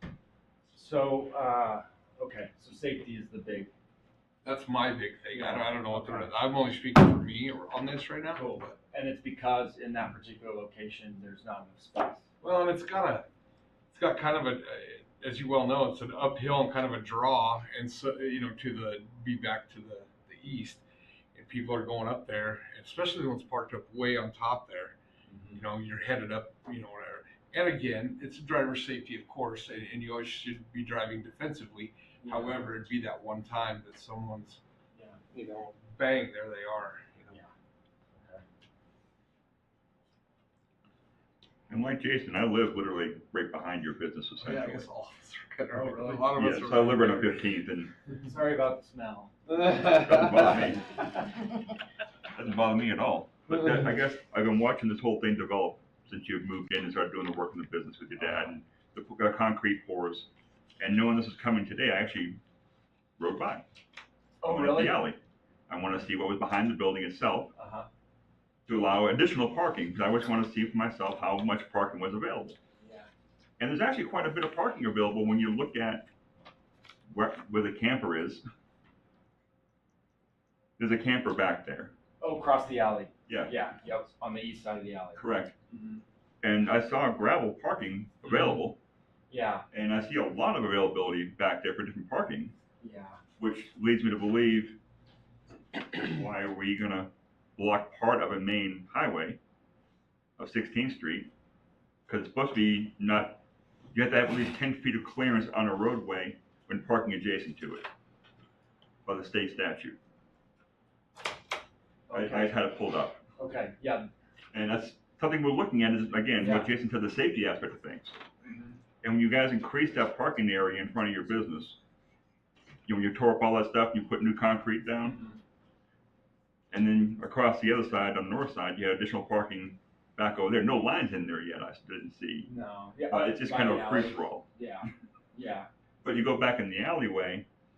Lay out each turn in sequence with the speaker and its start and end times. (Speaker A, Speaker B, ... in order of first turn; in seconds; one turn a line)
Speaker A: 0.7-3.7
Speaker B: 4.4-8.8
Speaker A: 5.3-6.3
Speaker A: 8.3-12.3
Speaker B: 12.4-13.3
Speaker B: 13.9-25.0
Speaker A: 25.3-25.6
Speaker B: 25.5-34.6
Speaker A: 32.2-32.6
Speaker B: 35.3-37.4
Speaker C: 41.7-44.9
Speaker B: 44.4-47.4
Speaker A: 45.7-46.4
Speaker C: 46.4-47.9
Speaker A: 48.1-50.0
Speaker C: 49.9-50.9
Speaker C: 52.3-62.4
Speaker A: 58.2-58.5
Speaker C: 63.2-63.6
Speaker A: 64.4-65.0
Speaker C: 64.5-67.5
Speaker A: 67.5-67.9
Speaker C: 68.7-72.6
Speaker A: 72.8-73.1
Speaker C: 73.6-76.1
Speaker C: 77.1-78.4
Speaker C: 80.8-81.9
Speaker A: 82.2-86.0
Speaker C: 83.3-83.5
Speaker C: 85.2-85.5
Speaker C: 86.4-88.8
Speaker A: 88.2-88.6
Speaker A: 89.3-89.7
Speaker C: 89.7-92.5
Speaker A: 92.8-93.2
Speaker C: 93.4-94.8
Speaker C: 95.9-99.4
Speaker C: 100.4-101.3
Speaker C: 102.1-103.4
Speaker C: 103.9-107.9
Speaker C: 109.0-110.0
Speaker A: 112.1-112.6
Speaker C: 112.1-113.2
Speaker A: 113.4-114.1
Speaker C: 114.5-118.2
Speaker A: 116.4-116.7
Speaker A: 118.5-118.8
Speaker C: 119.0-121.8
Speaker C: 122.9-125.2
Speaker A: 125.0-125.4
Speaker C: 126.7-132.5
Speaker A: 132.5-135.7
Speaker C: 133.1-134.5
Speaker C: 136.0-137.5